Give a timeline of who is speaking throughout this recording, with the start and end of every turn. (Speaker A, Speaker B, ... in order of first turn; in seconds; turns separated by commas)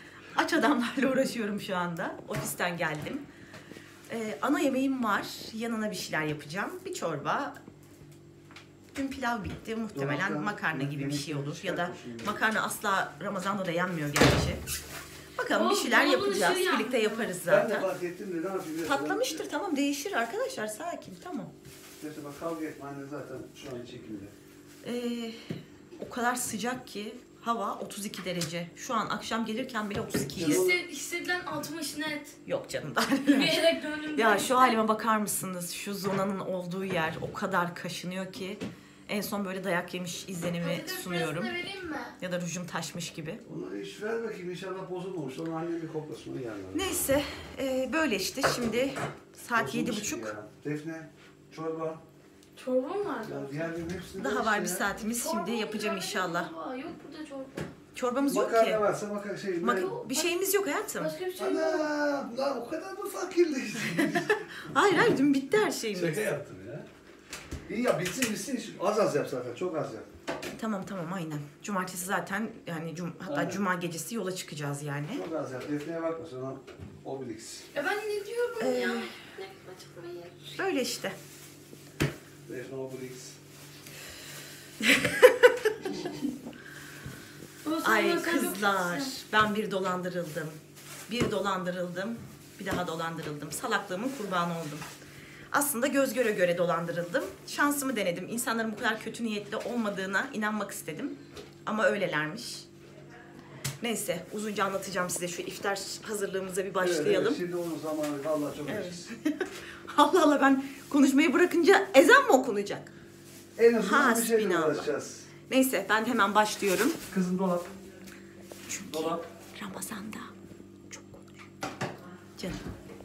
Speaker A: 0.3-3.2, Speaker A: 4.1-7.6, Speaker A: 8.9-14.6, Speaker B: 9.9-12.4, Speaker A: 15.4-17.9, Speaker C: 15.5-17.4, Speaker B: 17.4-19.4, Speaker A: 18.9-21.5, Speaker B: 22.0-24.3, Speaker A: 24.8-25.4, Speaker A: 26.0-30.7, Speaker B: 30.2-30.8, Speaker C: 30.4-32.3, Speaker A: 32.5-41.6, Speaker C: 33.2-34.7, Speaker C: 40.6-42.1, Speaker A: 42.2-43.4, Speaker B: 43.5-46.9, Speaker A: 46.7-50.3, Speaker B: 49.5-52.0, Speaker C: 52.5-53.6, Speaker B: 53.2-54.9, Speaker A: 54.2-56.5, Speaker C: 55.0-57.7, Speaker A: 57.9-58.8, Speaker B: 58.2-60.0, Speaker A: 59.6-61.1, Speaker C: 59.8-60.2, Speaker C: 61.0-61.8, Speaker B: 61.4-64.3, Speaker A: 63.9-66.2, Speaker B: 65.9-66.9, Speaker B: 67.7-70.1, Speaker A: 70.5-75.2, Speaker B: 73.2-73.6, Speaker B: 75.1-77.7, Speaker C: 77.7-80.4, Speaker A: 78.6-79.1, Speaker A: 80.4-81.2, Speaker B: 82.5-83.4, Speaker A: 84.8-85.8, Speaker C: 87.6-89.1, Speaker A: 87.8-94.8, Speaker A: 95.5-102.7, Speaker A: 103.8-107.4, Speaker B: 106.8-109.1, Speaker A: 108.7-112.9, Speaker B: 113.5-115.3, Speaker A: 113.8-114.9, Speaker A: 115.5-117.0, Speaker B: 117.1-117.7, Speaker A: 118.7-120.3, Speaker B: 118.9-119.2, Speaker A: 120.9-121.3, Speaker A: 122.4-122.7